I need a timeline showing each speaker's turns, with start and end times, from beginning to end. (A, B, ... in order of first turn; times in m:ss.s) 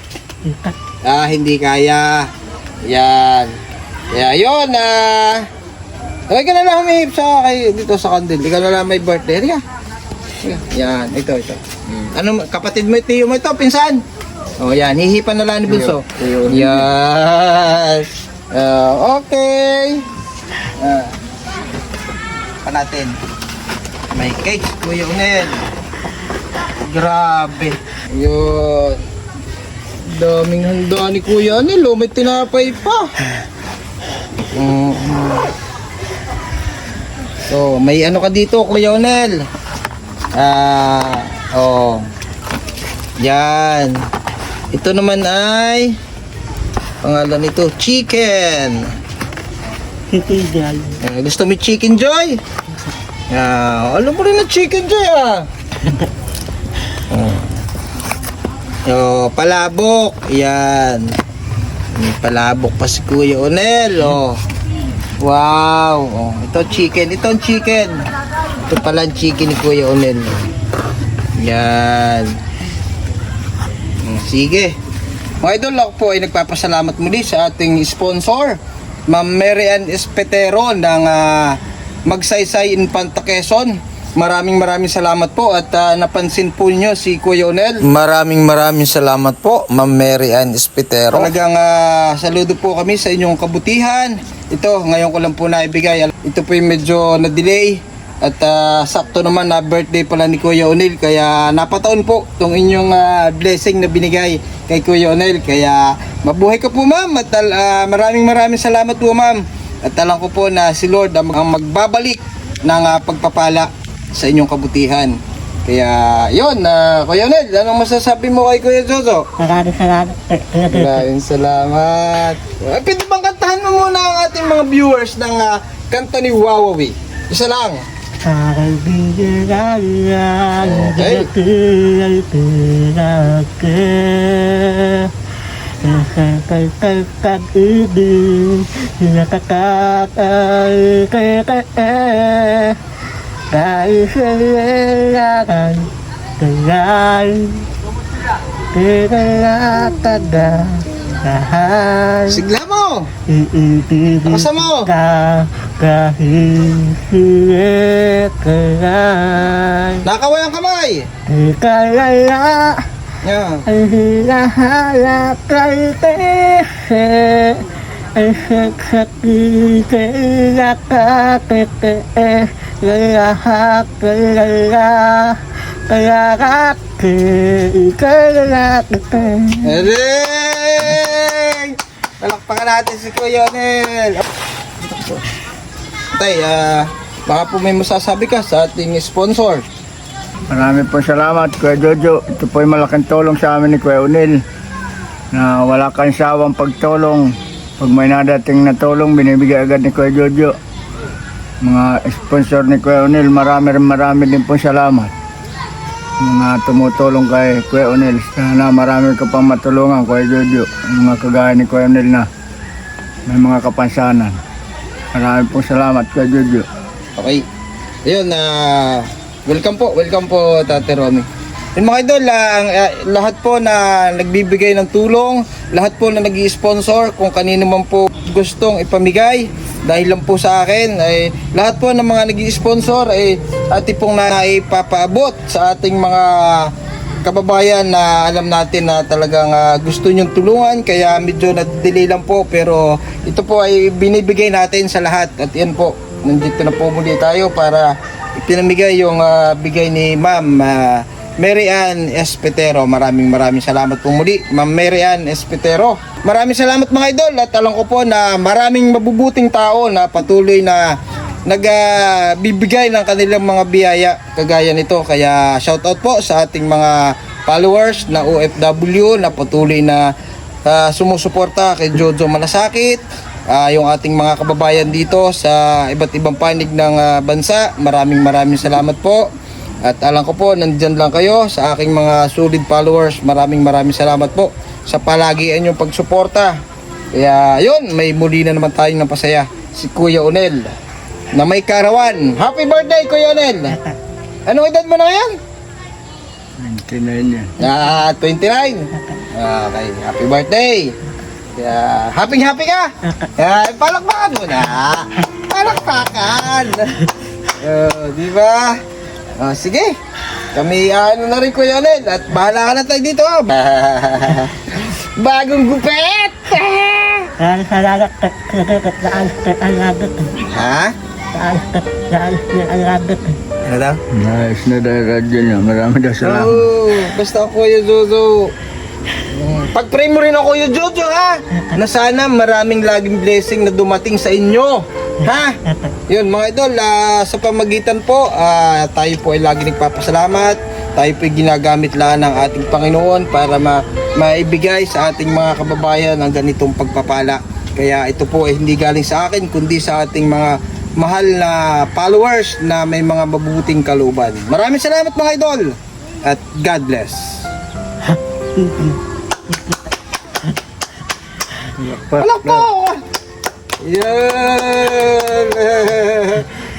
0:00.4-0:00.7 A
0:01.0-0:02.3 B
0:02.9-0:03.5 B
0:04.1-0:05.4 B
0:06.3-0:09.6 B
0:10.4-0:14.0 B
0:14.6-0:20.0 B
0:15.7-0:16.8 C
0:20.8-0:21.1 B
0:22.6-0:23.2 B
0:24.1-0:25.6 B
0:26.8-0:29.0 B
0:30.1-0:33.1 B
0:34.5-0:35.5 B
0:37.5-0:39.4 B
0:40.4-0:42.1 B
0:43.2-0:44.0 B
0:44.7-0:46.0 B
0:47.0-0:48.9 B
0:50.1-0:51.0 A
0:51.0-0:52.4 B
0:53.3-0:55.5 B
0:57.1-0:57.5 B
0:58.8-1:01.1 B
1:01.9-1:04.4 B
1:05.2-1:08.0 B
1:08.7-1:10.4 B
1:11.4-1:12.3 B
1:14.0-1:14.7 B
1:15.4-1:18.6 B
1:19.1-1:59.3 B
1:59.4-2:01.0 A
2:00.7-2:07.8 B
2:08.2-2:15.1 A
2:10.6-2:11.3 B
2:15.8-2:22.8 A
2:23.5-2:27.6 A
2:28.7-2:32.4 A
2:32.3-2:33.1 B
2:33.3-2:40.0 A
2:34.2-2:34.9 B
2:40.0-2:41.0 B
2:41.3-2:42.8 A
2:43.2-2:43.6 B
2:43.7-2:47.6 A
2:48.2-2:59.7 A
2:59.6-3:04.2 B
3:04.9-3:05.2 B
3:06.1-3:09.6 B
3:10.5-3:14.4 C
3:15.3-3:20.6 C
3:21.6-3:25.1 C
3:26.2-3:32.3 C
3:33.3-3:34.4 C
3:35.1-3:36.6 C
3:37.2-3:37.4 B
3:38.0-3:56.7 B
3:57.2-4:20.8 B
4:21.5-4:26.9 B
4:27.5-4:30.0 B
4:30.7-4:39.3 B
4:39.8-4:46.6 B
4:47.1-4:50.7 B
4:51.3-4:53.8 B
4:54.5-4:55.4 B
4:56.6-4:57.5 C
4:57.6-5:00.9 B
5:01.6-5:07.0 B
5:07.6-5:08.8 B
5:09.4-5:09.9 B
5:10.5-5:17.3 B
5:17.4-5:20.3 A
5:20.5-5:20.9 B
5:21.3-5:23.4 A
5:23.6-5:24.0 B
5:24.1-5:26.6 C
5:26.2-5:28.5 B
5:29.3-5:35.6 B
5:36.1-5:57.5 B
5:58.6-5:59.0 A
6:01.8-6:02.6 C
6:02.2-6:03.0 B
6:03.8-6:06.5 B